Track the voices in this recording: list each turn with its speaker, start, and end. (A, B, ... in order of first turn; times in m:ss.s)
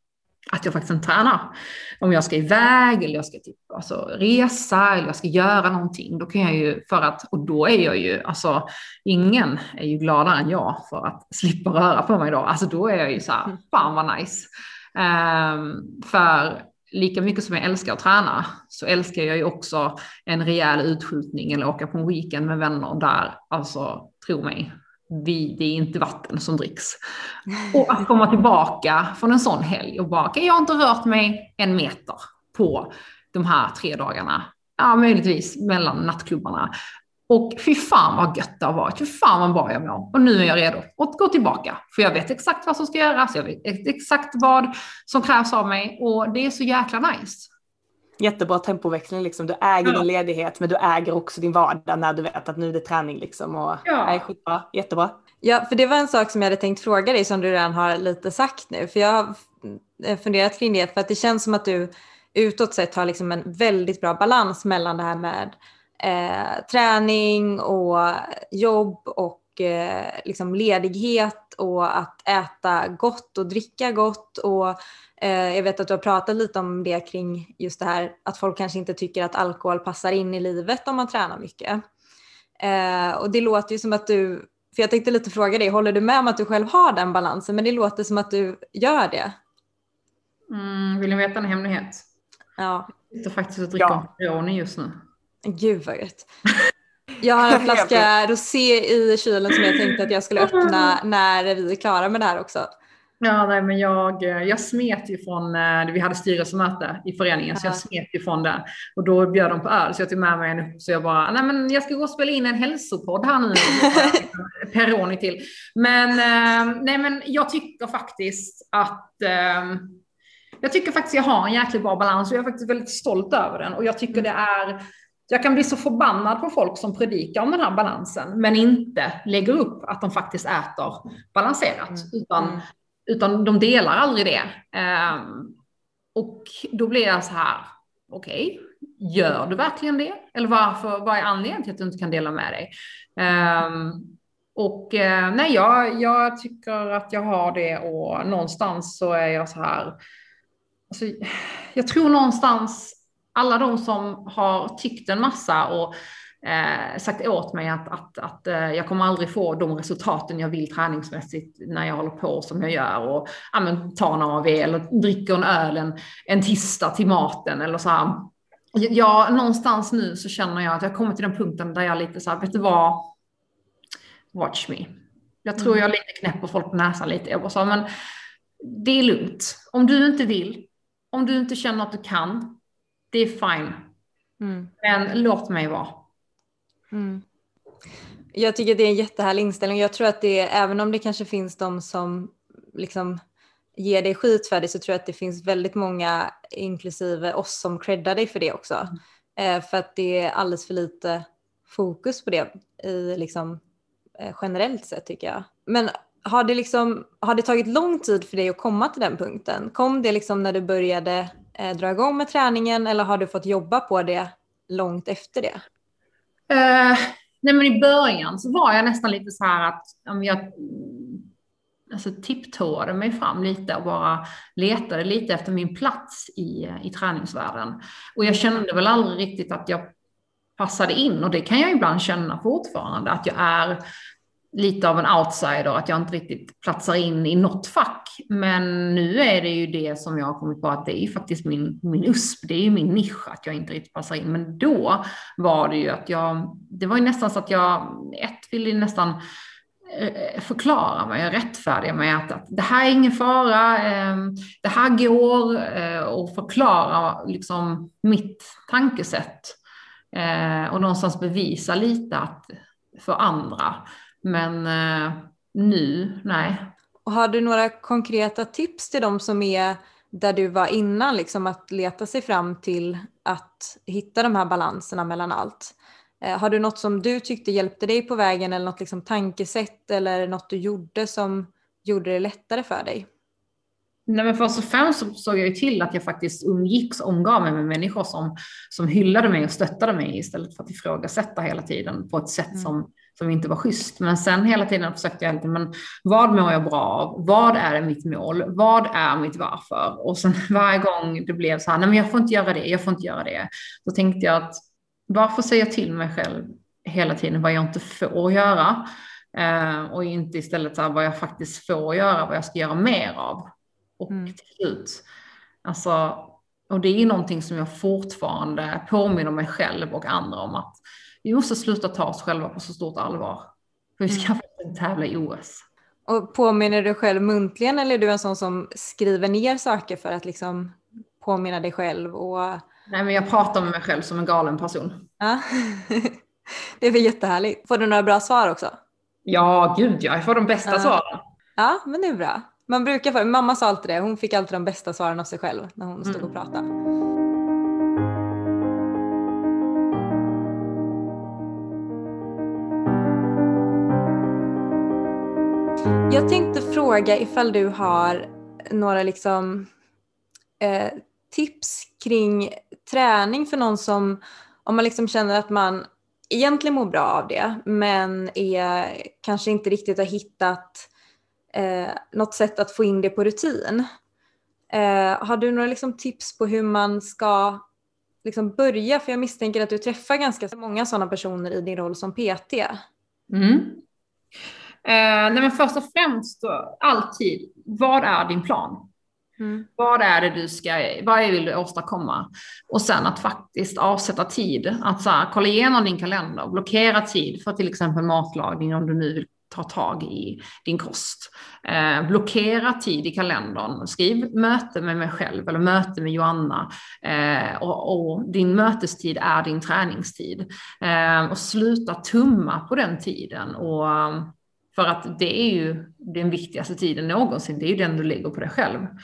0:00.5-0:27.0 A
0:27.6-0:36.7 A
0:37.3-0:47.5 A
0:48.2-0:55.2 B
0:53.8-0:54.2 A
0:55.4-1:21.8 C
1:22.6-1:29.4 C
1:30.5-1:32.0 A
1:32.6-1:32.9 C
1:33.1-1:35.0 A
1:33.8-1:34.0 B
1:35.4-1:36.3 C
1:37.2-1:42.7 C
1:37.5-1:38.1 B
1:40.4-1:41.0 A
1:43.2-2:00.0 A
1:47.6-1:47.8 C
2:00.6-2:15.6 A
2:12.0-2:12.6 C
2:16.2-2:30.0 A
2:30.9-2:53.1 A
2:54.3-2:57.9 A
2:58.6-3:02.6 A
3:03.1-3:03.9 A
3:04.4-3:04.7 C
3:04.8-3:06.0 A
3:06.9-3:07.2 C
3:08.4-3:13.2 C
3:13.8-3:23.6 C
3:24.2-3:35.6 C
3:36.5-3:41.3 A
3:41.9-3:49.9 A
3:50.6-3:53.8 A
3:54.5-4:09.2 A
4:09.9-4:19.6 A
4:20.1-4:26.7 A
4:27.1-4:43.1 C
4:44.1-5:13.4 A
5:14.0-5:15.0 A
5:15.6-5:23.5 A
5:24.0-5:25.6 A
5:26.1-5:32.6 C
5:32.9-5:35.1 A
5:35.2-5:38.8 C
5:39.3-5:41.2 A
5:40.7-5:41.0 C
5:41.6-5:46.7 C
5:56.1-5:59.7 C
6:00.6-6:10.9 C
6:11.5-6:13.9 C
6:14.7-6:17.6 C
6:18.2-6:22.8 C
6:23.3-6:23.8 A
6:24.8-6:28.9 A
6:29.4-6:29.7 C
6:29.8-6:58.9 A